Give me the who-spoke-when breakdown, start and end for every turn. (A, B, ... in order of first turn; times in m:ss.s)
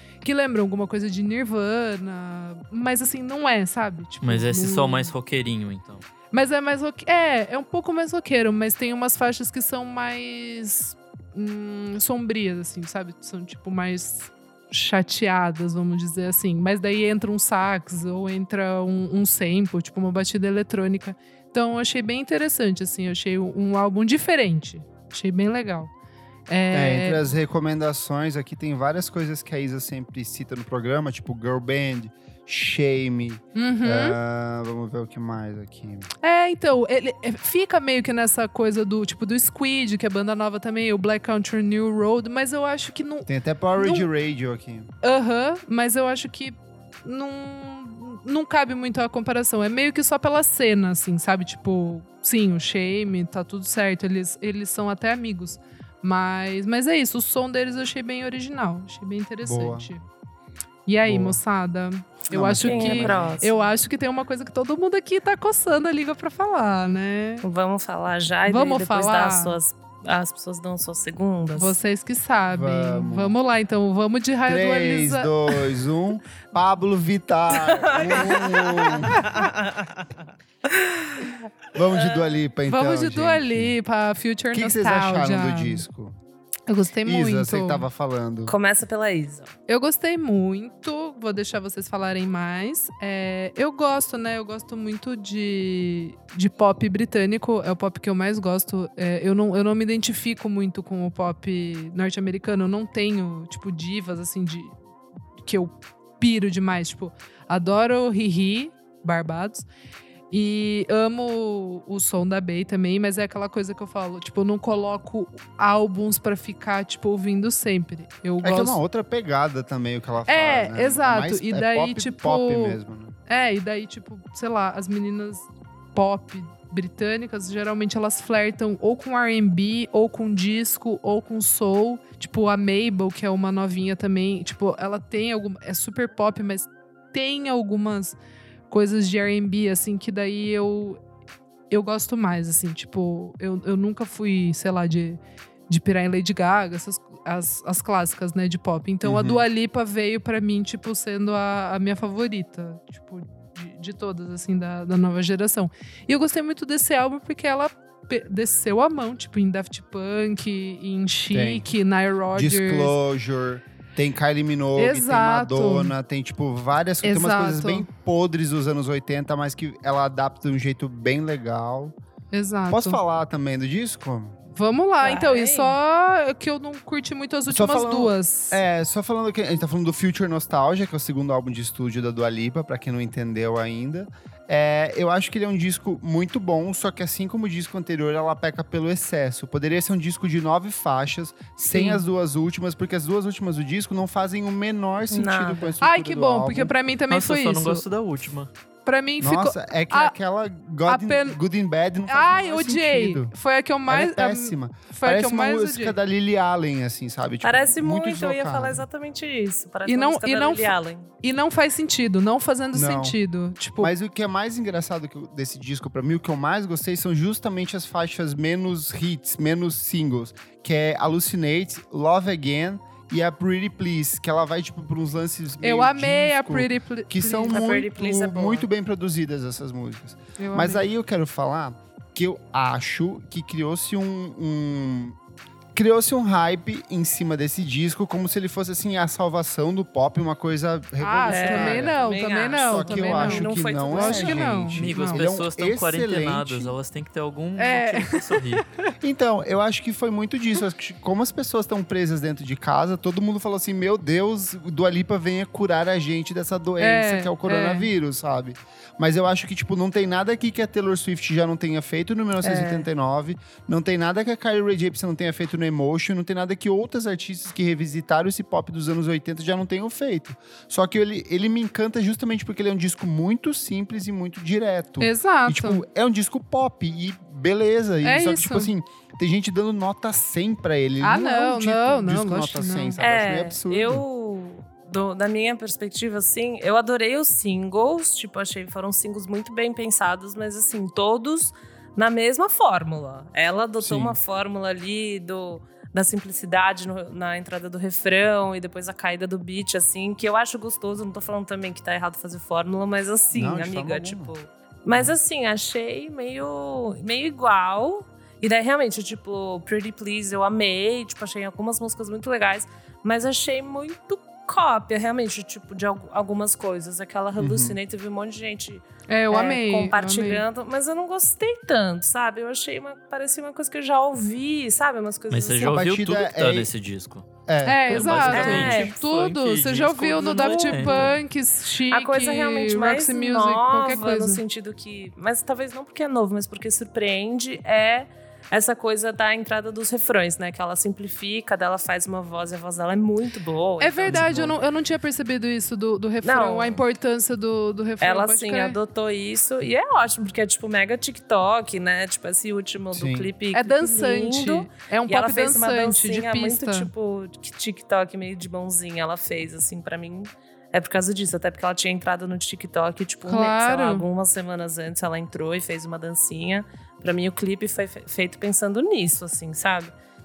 0:00.2-0:05.1 A
0:04.2-0:06.0 B
0:06.3-0:25.9 A
0:26.5-0:27.3 A
0:26.7-0:36.1 C
0:33.6-0:34.2 A
0:36.2-0:44.1 A
0:43.3-0:44.9 C
0:45.0-1:00.0 A
0:59.4-0:59.9 C
1:00.9-1:07.4 A
1:01.0-1:01.4 C
1:02.3-1:03.3 C
1:02.6-1:03.6 D
1:07.4-1:11.8 D
1:08.5-1:09.6 A
1:11.6-1:15.3 A
1:12.5-1:13.4 C
1:14.5-1:19.5 C
1:17.5-1:20.0 D
1:20.7-1:21.4 D
1:21.7-1:23.8 C
1:22.0-1:22.3 D
1:22.6-1:25.8 A
1:24.5-1:26.2 C
1:26.7-1:27.9 A
1:27.0-1:28.6 C
1:28.5-1:29.5 D
1:29.7-1:44.8 A
1:45.4-1:49.7 A
1:50.3-1:58.8 A
1:58.4-2:03.1 C
2:00.3-2:18.2 A
2:18.7-2:21.0 A
2:21.7-2:43.0 A
2:29.0-2:29.4 C
2:41.3-2:41.7 C
2:42.3-2:52.0 C
2:44.8-2:46.0 A
2:47.0-2:47.9 A
2:52.3-2:53.0 A
2:52.7-2:54.4 C
2:54.6-2:58.6 A
2:55.0-2:55.8 D
2:57.5-3:16.7 C
3:11.7-3:12.0 A
3:15.1-3:15.7 D
3:15.8-3:17.9 A
3:17.1-3:18.5 B
3:18.8-3:20.2 A
3:19.2-3:23.3 C
3:20.9-3:21.4 A
3:22.1-3:26.0 A
3:23.9-3:28.8 C
3:27.4-3:31.1 D
3:29.9-3:33.9 A
3:32.7-3:33.2 C
3:33.8-3:55.2 C
3:45.6-3:47.6 A
3:47.5-3:48.7 D
3:50.4-3:50.8 A
3:55.8-4:02.0 C
4:01.0-4:05.2 A
4:01.3-4:04.4 D
4:02.7-4:06.7 C
4:04.7-4:08.6 B
4:07.6-4:08.6 A
4:09.0-4:44.0 C
4:16.8-4:17.9 A
4:22.4-4:22.9 D
4:35.0-4:35.8 A
4:38.0-4:38.7 A
4:41.0-4:43.0 A
4:43.0-5:25.8 D
4:53.8-4:54.2 C
5:03.3-5:04.3 C
5:17.4-5:17.8 C
5:19.1-5:20.4 A
5:25.3-5:27.3 B
5:25.6-5:26.7 C
5:27.5-5:28.3 C
5:27.6-5:34.4 A
5:27.9-5:31.2 B
5:28.1-5:28.9 D
5:30.2-5:31.2 D
5:31.9-5:44.3 D
5:43.8-5:48.8 A
5:44.1-5:44.6 C
5:46.2-5:46.8 D
5:48.0-6:10.0 D
5:52.9-5:53.3 C
5:53.5-5:56.9 A
6:03.2-6:04.1 A